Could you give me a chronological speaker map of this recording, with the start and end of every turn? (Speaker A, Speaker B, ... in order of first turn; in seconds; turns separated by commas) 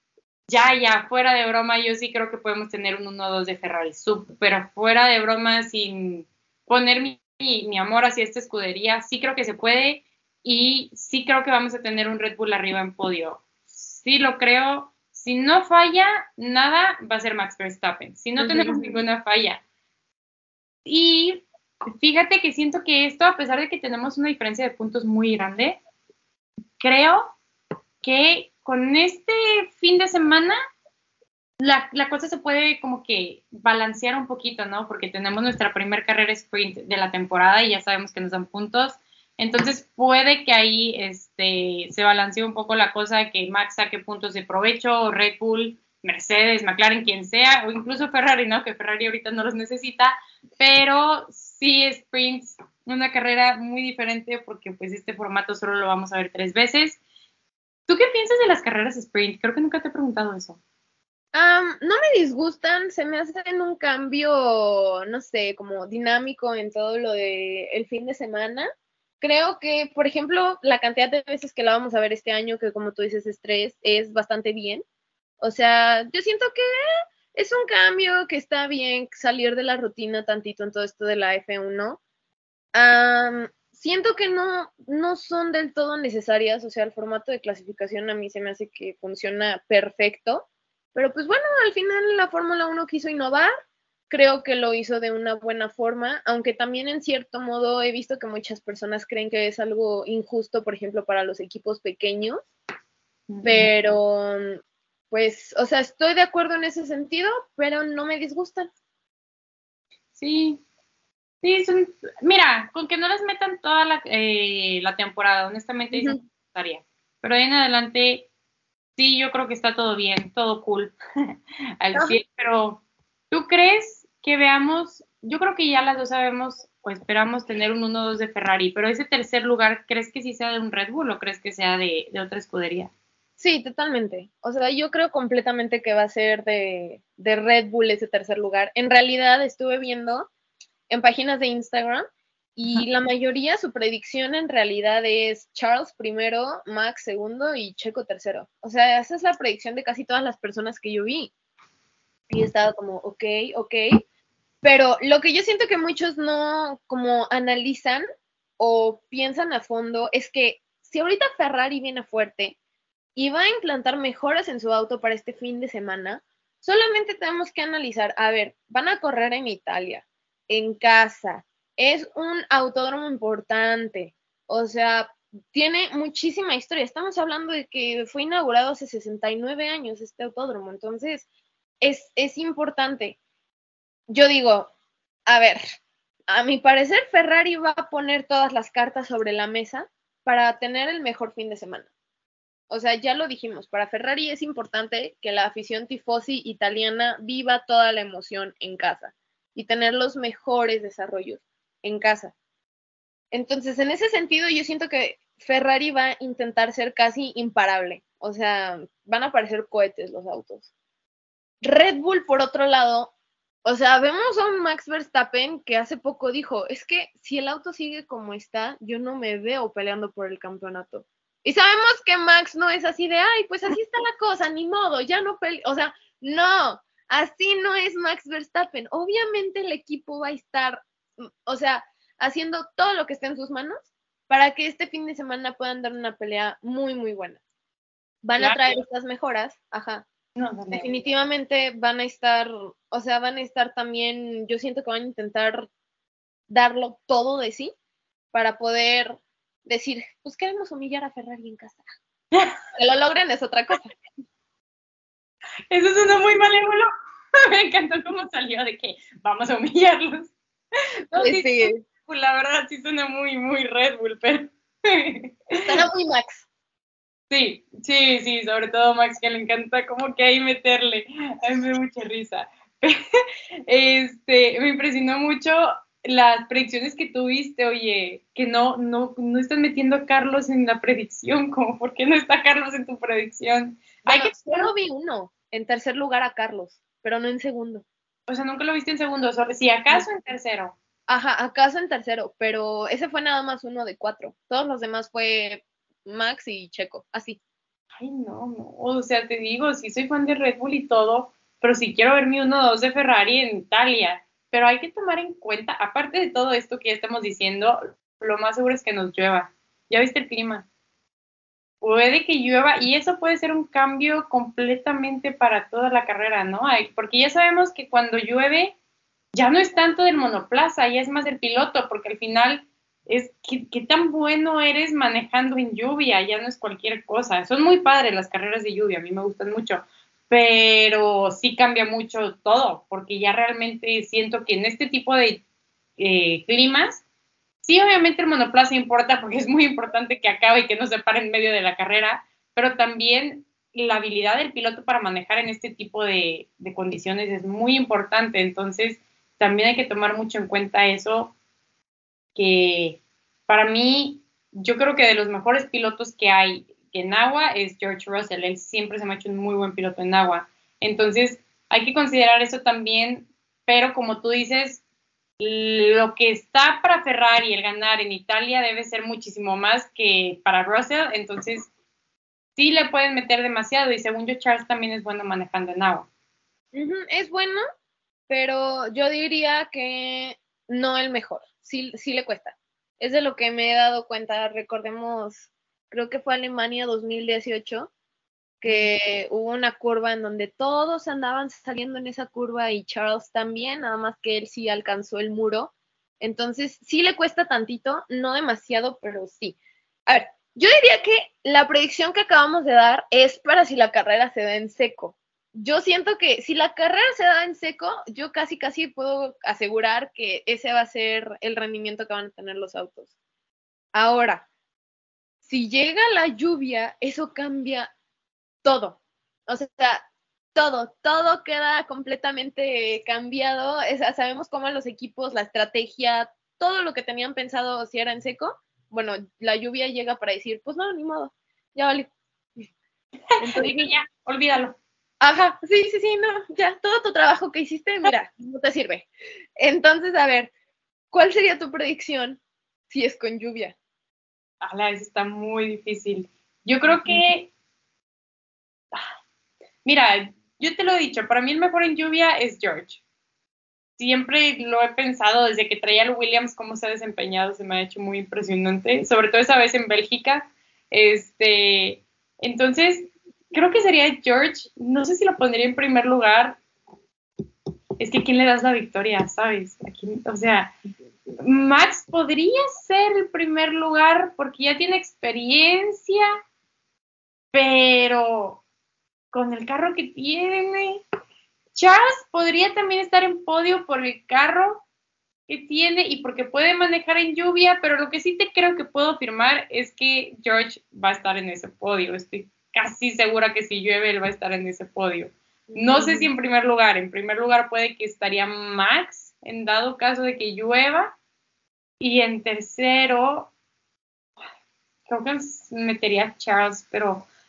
Speaker A: 0.5-19.6, Speaker B: 18.4-18.9, Speaker A: 20.8-21.4, Speaker A: 22.0-25.8, Speaker A: 26.8-27.4, Speaker A: 28.0-30.6, Speaker A: 31.6-57.0, Speaker A: 57.9-60.6, Speaker B: 61.3-68.7, Speaker B: 69.2-74.8, Speaker B: 75.4-76.7, Speaker B: 77.3-82.0, Speaker B: 82.7-93.5, Speaker B: 94.1-102.4, Speaker A: 103.3-103.7, Speaker B: 103.4-104.6, Speaker B: 105.1-108.7, Speaker A: 110.2-110.6, Speaker A: 111.4-118.3, Speaker B: 115.9-116.2, Speaker A: 119.0-121.0, Speaker A: 121.8-132.9, Speaker B: 133.4-140.3, Speaker B: 140.9-142.0, Speaker B: 142.6-151.3, Speaker B: 152.3-154.0, Speaker B: 154.6-158.0, Speaker B: 158.6-162.6, Speaker B: 163.2-181.3, Speaker B: 181.8-183.2, Speaker B: 184.1-184.7, Speaker B: 185.3-185.6, Speaker B: 186.3-191.9, Speaker B: 192.7-202.3, Speaker B: 203.3-210.7, Speaker B: 211.6-213.1, Speaker B: 213.6-237.4, Speaker B: 238.2-240.1, Speaker A: 238.4-238.8, Speaker A: 240.3-240.9, Speaker B: 240.7-245.7, Speaker B: 246.5-247.7, Speaker B: 248.3-251.8, Speaker B: 252.7-253.9, Speaker A: 255.7-256.9, Speaker A: 257.4-260.3, Speaker A: 261.1-265.7, Speaker B: 261.1-261.8, Speaker B: 265.6-266.4, Speaker A: 267.3-273.0, Speaker A: 273.7-284.7, Speaker B: 284.1-287.9, Speaker A: 288.3-290.7, Speaker B: 291.1-297.4, Speaker A: 297.9-310.7, Speaker A: 311.8-318.7, Speaker A: 319.3-335.4, Speaker A: 336.0-337.0, Speaker A: 337.6-351.3, Speaker A: 352.3-364.8, Speaker A: 365.4-371.7, Speaker A: 372.6-376.1, Speaker B: 376.7-377.6, Speaker B: 378.3-387.9, Speaker B: 388.6-413.1, Speaker B: 413.9-414.4, Speaker B: 415.4-417.9, Speaker B: 418.6-432.1, Speaker B: 433.4-433.9, Speaker A: 433.4-434.8, Speaker B: 435.2-440.5, Speaker B: 441.1-443.8, Speaker A: 444.6-447.5, Speaker B: 446.9-447.2, Speaker A: 449.8-453.0, Speaker A: 454.0-466.6, Speaker A: 468.0-470.7, Speaker A: 471.4-476.3, Speaker A: 477.5-478.6, Speaker A: 479.3-481.0, Speaker A: 481.7-484.8, Speaker A: 485.5-501.1, Speaker B: 495.7-496.3, Speaker A: 502.0-503.5, Speaker A: 505.1-507.2